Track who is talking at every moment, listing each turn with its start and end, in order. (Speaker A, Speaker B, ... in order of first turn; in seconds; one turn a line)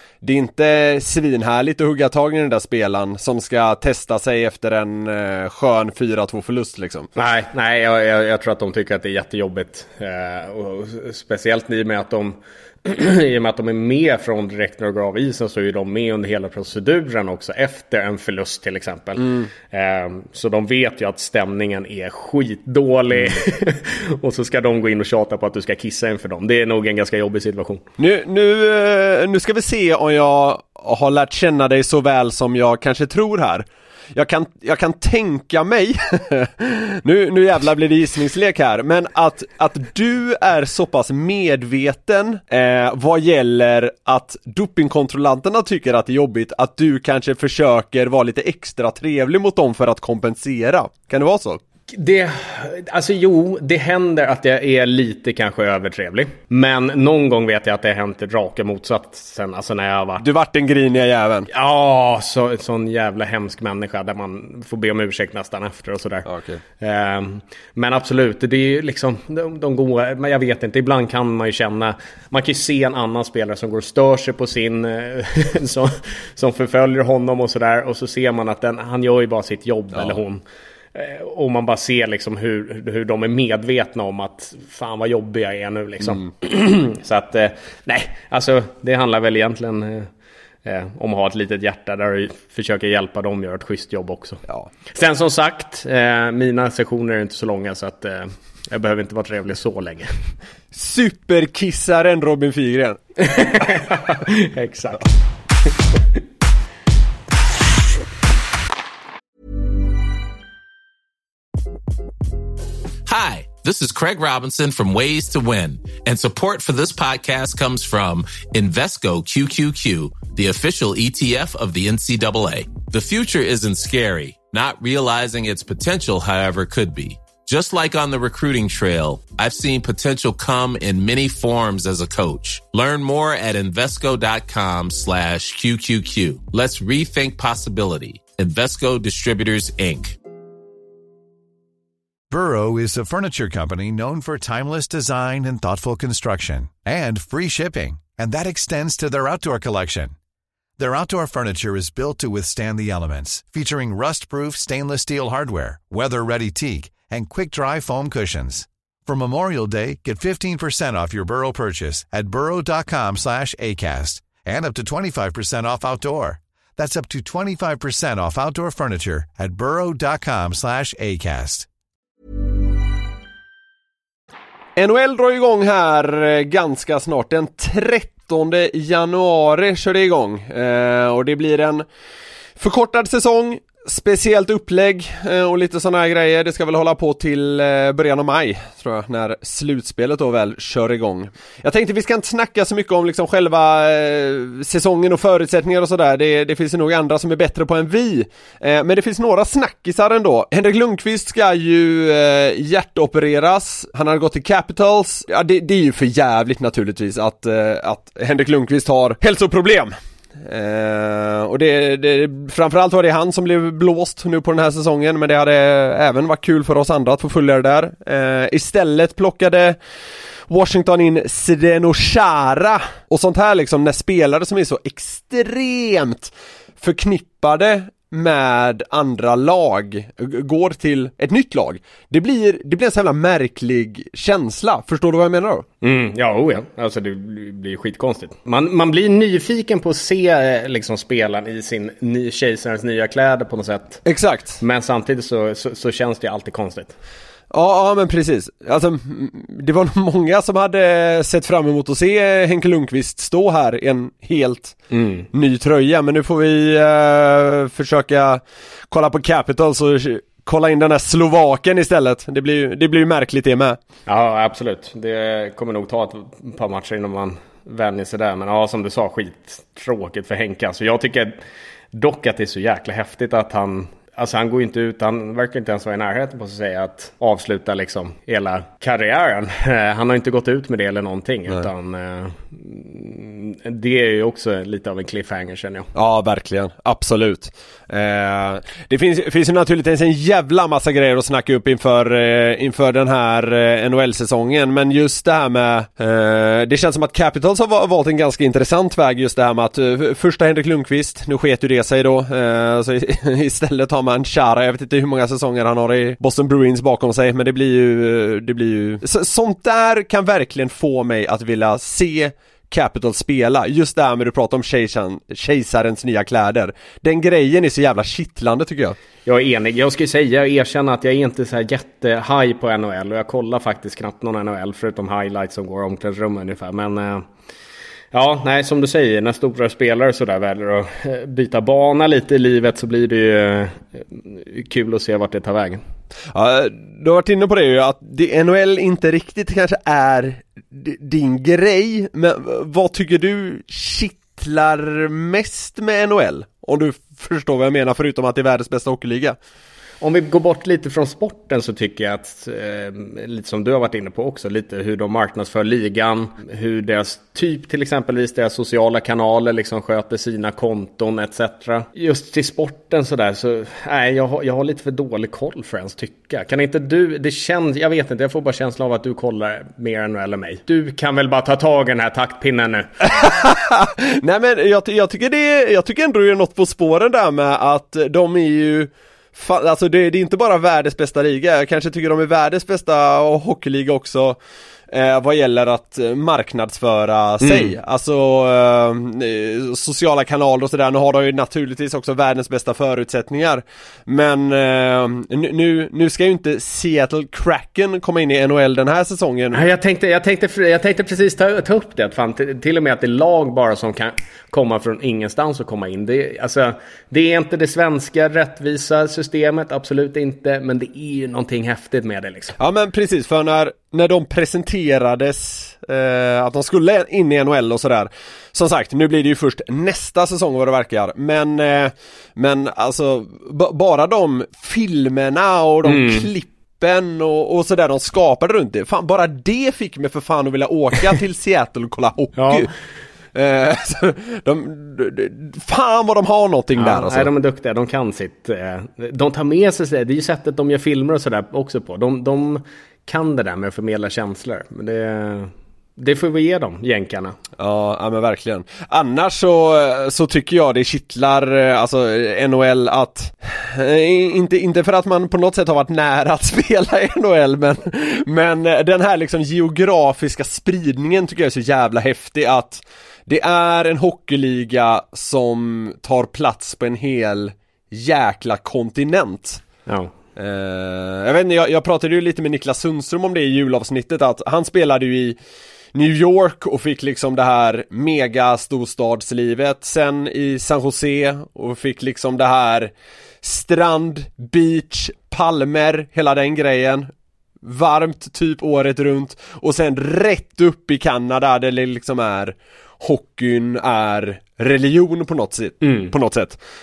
Speaker A: 0.2-7.1
Speaker B: 7.2-27.9
Speaker A: 19.2-19.5
Speaker A: 28.0-51.6
Speaker B: 51.9-60.3
Speaker A: 60.2-61.5
Speaker B: 61.5-66.3
Speaker A: 66.3-66.6
Speaker B: 66.8-90.1
Speaker B: 90.7-100.1
Speaker A: 100.7-103.0
Speaker B: 103.2-105.1
Speaker C: 113.1-140.2
Speaker D: 142.3-150.2
Speaker D: 150.8-171.7
Speaker A: 174.8-181.8
Speaker A: 182.6-219.8
Speaker A: 220.5-235.7
Speaker B: 235.8-244.1
Speaker A: 244.1-244.6
Speaker B: 244.6-247.0
Speaker A: 247.5-254.8
Speaker B: 254.9-255.3
Speaker A: 255.3-263.8
Speaker B: 264.1-271.4
Speaker B: 271.9-285.9
Speaker A: 285.9-319.0
Speaker B: 319.2-327.3
Speaker B: 328.1-335.8
Speaker A: 336.3-349.4
Speaker B: 350.0-372.9
Speaker A: 373.1-384.4
Speaker A: 384.9-399.6
Speaker B: 387.4-387.8
Speaker B: 399.5-412.6
Speaker A: 412.6-432.7
Speaker B: 425.8-426.3
Speaker B: 432.4-432.7
Speaker A: 433.3-437.3
Speaker B: 436.8-447.4
Speaker A: 447.6-469.6
Speaker B: 469.9-470.1
Speaker A: 470.4-475.4
Speaker A: 475.9-487.1
Speaker A: 487.6-496.6
Speaker B: 495.8-496.1